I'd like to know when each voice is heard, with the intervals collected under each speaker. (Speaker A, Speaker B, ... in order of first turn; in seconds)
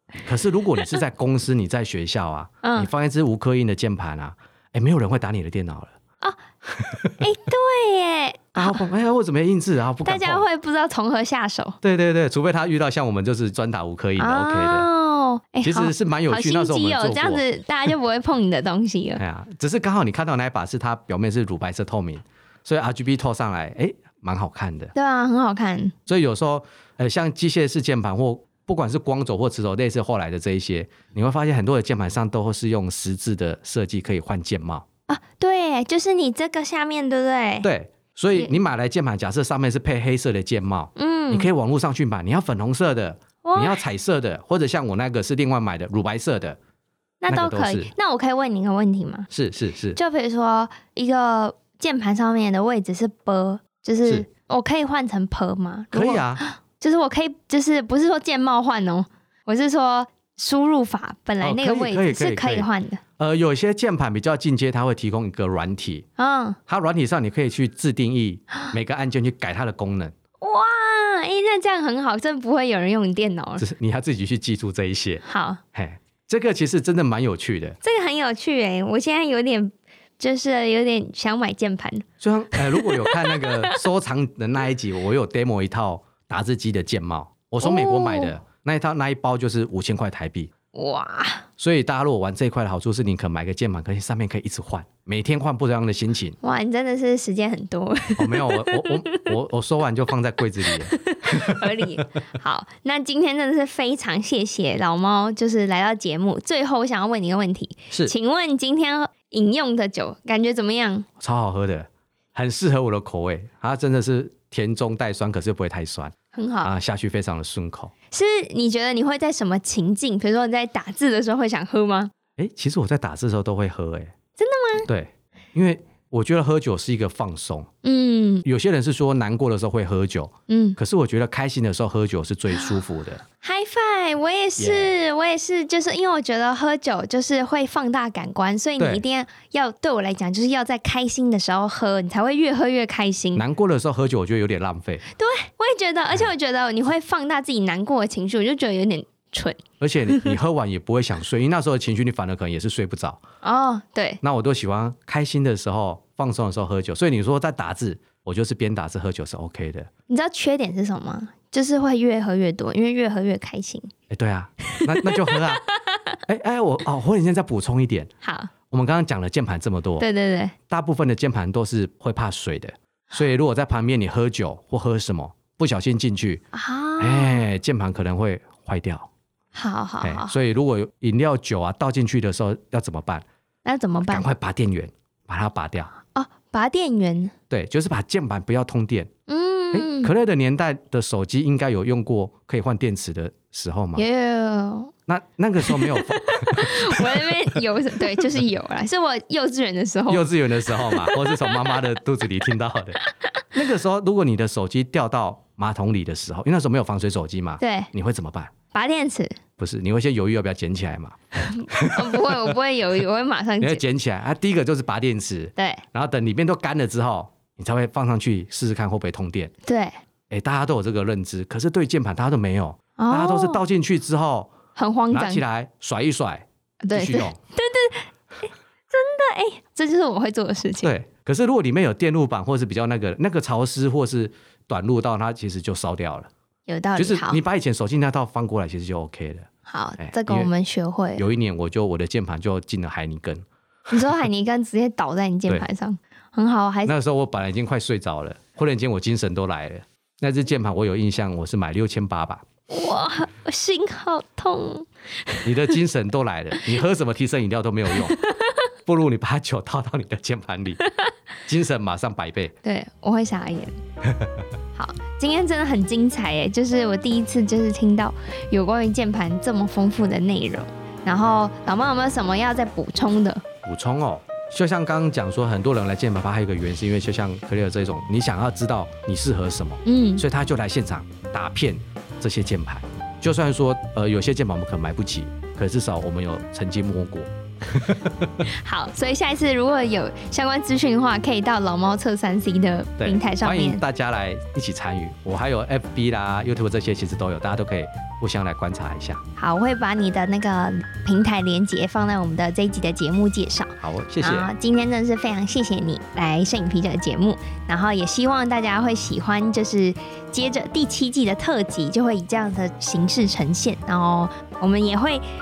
Speaker A: 0.2-6.0, 6.7-7.2, 8.6-10.5, 11.8-14.9, 15.6-17.4, 19.2-24.9, 26.1-34.9, 37.6-46.6, 47.3-47.9, 49.3-50.0, 55.9-56.4, 61.4-62.7, 63.2-66.1, 66.7-70.1, 73.6-77.8, 82.2-90.5, 91.6-96.4, 98.2-101.7, 111.2-117.9, 122.4-124.1, 124.9-127.7, 128.4-133.2, 134.6-134.9, 143.3-145.0, 149.8-153.2, 154.2-159.9, 164.1-165.7, 166.3-168.1, 168.7-170.1, 170.7-176.4, 177.0-179.1, 180.0-183.2, 184.1-185.9, 187.5-189.1, 189.7-194.0, 195.1-197.6, 198.1-198.4, 200.1-203.0, 203.5-208.5, 209.6-211.2, 211.7-212.6, 213.6-219.5, 220.3-224.5, 225.1-227.4, 230.8-236.3, 237.0-239.5, 240.0-240.5, 241.2-243.4, 246.9-252.4, 255.4-258.2, 258.9-260.8, 261.5-262.5, 264.0-264.3, 273.6-288.5, 293.0-299.2, 303.8-304.5
Speaker B: 2.6-2.9, 7.2-8.8, 10.0-11.8, 14.2-19.2, 24.9-25.9, 35.1-37.7, 41.0-41.5, 43.4-43.8, 47.2-49.3, 50.0-63.0, 66.2-66.6, 70.4-73.6, 75.2-75.6, 77.8-83.8, 87.6-88.3, 90.7-91.5, 96.4-99.3, 100.7-111.1, 116.3-116.7, 118.1-122.1, 124.4-124.9, 127.8-128.5, 130.5-130.8, 133.4-143.4, 145.1-150.3, 153.4-154.2, 160.1-163.9, 164.7-166.2, 168.2-168.5, 170.0-170.5, 176.5-177.4, 179.5-180.4, 183.7-184.3, 186.1-187.3, 189.3-190.1, 194.0-194.9, 195.6-201.8, 207.6-207.9, 208.7-209.4, 211.4-213.8, 215.6-215.8, 219.7-219.9, 223.0-223.6, 224.8-225.4, 226.8-230.9, 236.7-237.4, 239.7-241.2, 243.9-246.9, 252.7-255.7, 258.0-258.6, 260.8-261.1, 262.6-263.8, 264.8-273.4, 279.9-280.2, 288.4-293.8, 299.4-315.2